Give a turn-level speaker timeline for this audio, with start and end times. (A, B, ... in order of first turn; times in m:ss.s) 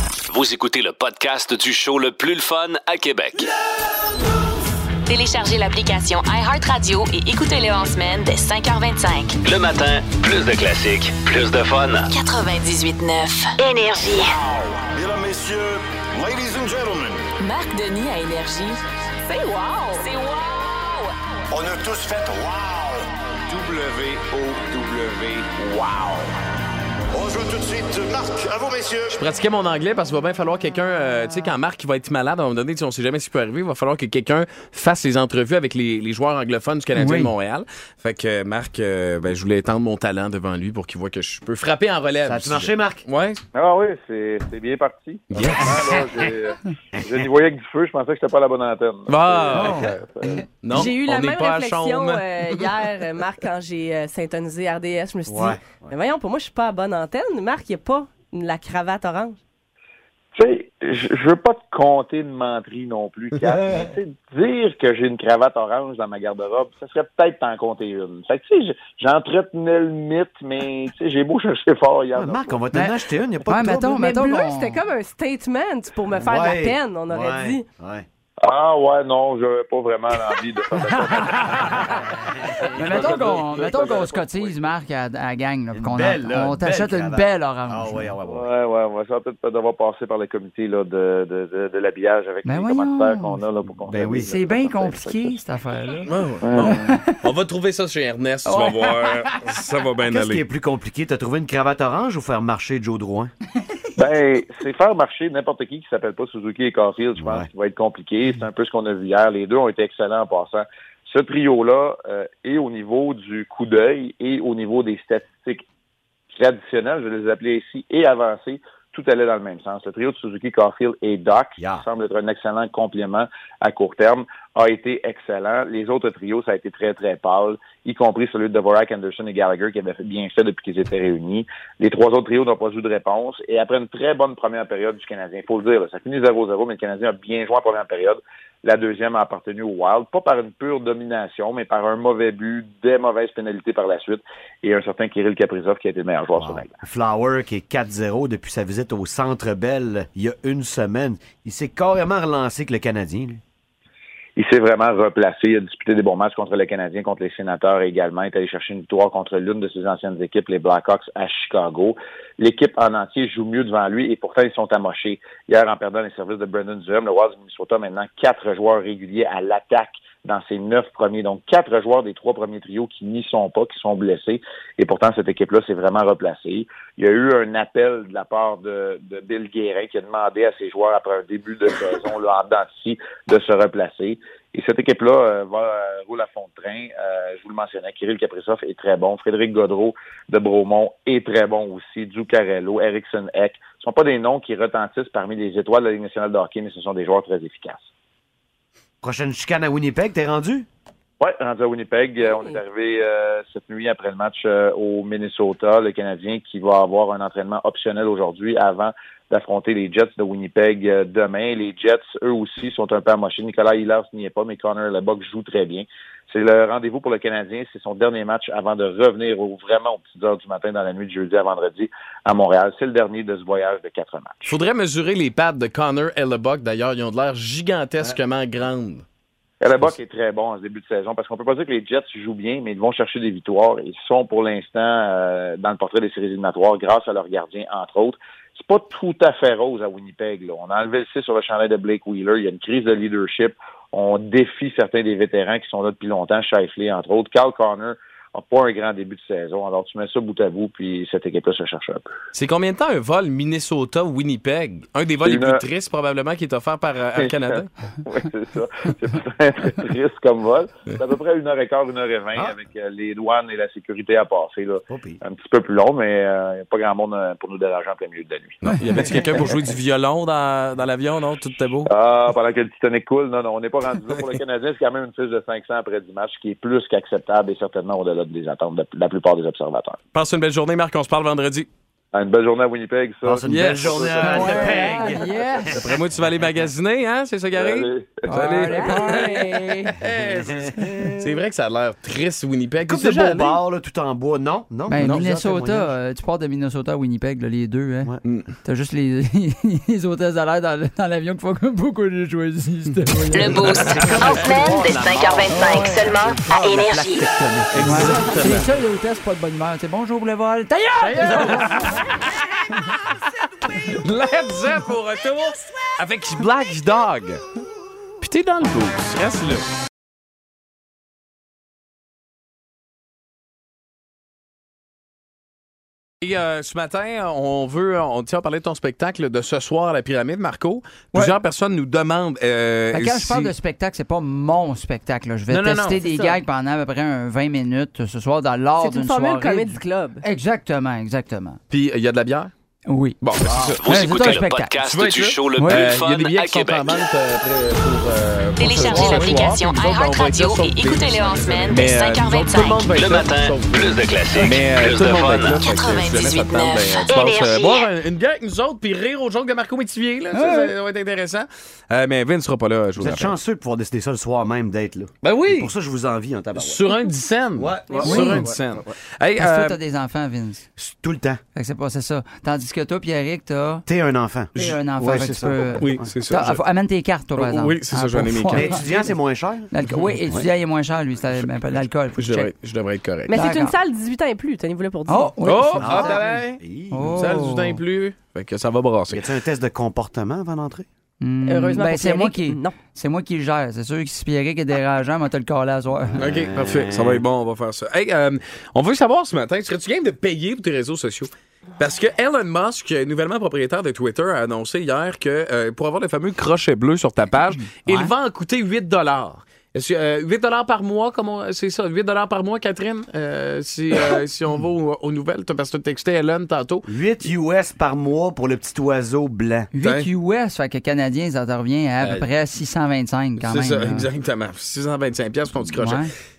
0:00.3-0:03.5 A
0:05.0-0:09.4 B
0:09.4-0:12.1 A
0:12.1-0:14.4 B
0:14.1-0:17.3 C
0:17.4-0:18.8 B
0:19.2-0:20.0 D
0:19.5-0:21.1 B
0:21.5-0:26.3 C
0:27.1-0:29.2 C
0:29.2-0:43.4 E
0:36.9-0:37.3 F
0:42.2-0:43.0 G
0:43.5-0:50.4 H
0:45.3-0:46.0 E
0:45.3-0:46.0 G
0:47.0-0:47.2 G
0:49.1-0:49.9 E
0:49.5-0:49.9 F
0:50.6-0:52.7 E
0:50.7-0:59.4 D
0:55.2-0:55.9 G
1:00.3-1:12.6 H
1:12.1-1:13.9 G
1:12.7-1:14.8 F
1:13.5-1:17.6 D
1:16.1-1:18.0 G
1:18.4-1:24.7 H
1:20.8-1:22.1 F
1:22.2-1:23.5 G
1:22.7-1:28.1 F
1:25.7-1:28.5 G
1:28.2-1:35.3 H
1:32.4-1:33.4 F
1:33.8-1:34.3 G
1:34.1-1:37.2 F
1:36.1-1:40.4 E
1:36.4-1:36.8 H
1:38.4-1:39.6 F
1:40.1-1:43.3 G
1:44.0-1:55.6 H
1:47.2-1:47.5 G
1:56.3-2:26.7 H
2:01.6-2:01.8 G
2:26.4-2:33.4 G
2:34.4-3:17.9 H
3:19.0-3:20.7 G
3:21.2-3:44.5 H
3:44.4-3:49.0 E
3:49.6-4:12.1 H
4:12.3-4:17.7 E
4:15.2-4:15.6 H
4:17.2-4:28.7 H
4:24.9-4:25.2 G
4:28.6-4:31.9 E
4:28.9-4:29.4 G
4:31.8-4:40.0 H
4:40.1-4:41.7 E
4:42.1-4:44.9 H
4:43.2-4:46.0 G
4:43.5-4:44.4 E
4:44.2-4:45.9 F
4:45.7-4:53.6 E
4:47.5-4:48.5 H
4:48.2-4:50.0 F
4:49.0-4:49.3 D
4:50.1-4:51.1 G
4:52.8-4:55.9 G
4:54.9-5:03.9 F
4:55.0-4:55.2 E
4:58.2-4:58.5 E
5:03.3-5:07.3 B
5:03.7-5:05.4 E
5:03.9-5:05.4 G
5:05.5-5:06.6 F
5:06.1-5:08.4 G
5:07.7-5:08.7 E
5:07.8-5:12.1 F
5:11.0-5:17.4 E
5:18.2-5:19.7 E
5:26.2-5:33.5 E
5:32.9-5:41.6 F
5:35.5-5:36.0 E
5:36.0-5:36.4 D
5:38.8-5:40.2 D
5:41.7-5:42.5 E
5:42.9-5:43.2 F
5:43.2-6:03.3 E
5:43.4-5:43.7 G
5:43.6-5:47.0 A
5:43.8-5:44.7 F
5:45.6-5:45.9 F
5:48.6-5:52.9 B
5:48.7-5:49.4 F
5:52.9-5:55.7 A
5:55.5-5:57.9 B
6:00.3-6:00.7 F
6:03.0-6:07.0 G
6:05.2-6:05.7 E
6:06.6-6:09.8 E
6:07.5-6:08.9 G
6:07.9-6:08.2 D
6:08.0-6:08.5 F
6:09.4-6:10.7 F
6:10.8-6:11.4 G
6:11.5-6:13.8 F
6:13.9-6:16.1 G
6:14.6-6:18.8 F
6:15.8-6:16.6 E
6:17.4-6:18.8 E
6:18.5-6:20.5 G
6:19.7-6:22.5 F
6:22.2-6:23.3 E
6:23.3-6:25.4 D
6:23.3-6:23.7 F
6:25.1-6:26.3 F
6:25.4-6:26.6 E
6:25.8-6:27.5 G
6:26.9-6:27.8 F
6:27.1-6:29.2 E
6:29.1-6:30.8 G
6:31.2-6:36.2 F
6:31.4-6:32.7 D
6:36.0-6:37.2 G
6:36.2-6:56.9 E
6:47.6-6:48.1 F
6:56.8-6:59.7 G
6:59.7-7:04.1 F
6:59.8-7:00.1 E
7:02.0-7:02.3 E
7:03.4-7:06.0 E
7:05.7-7:06.1 F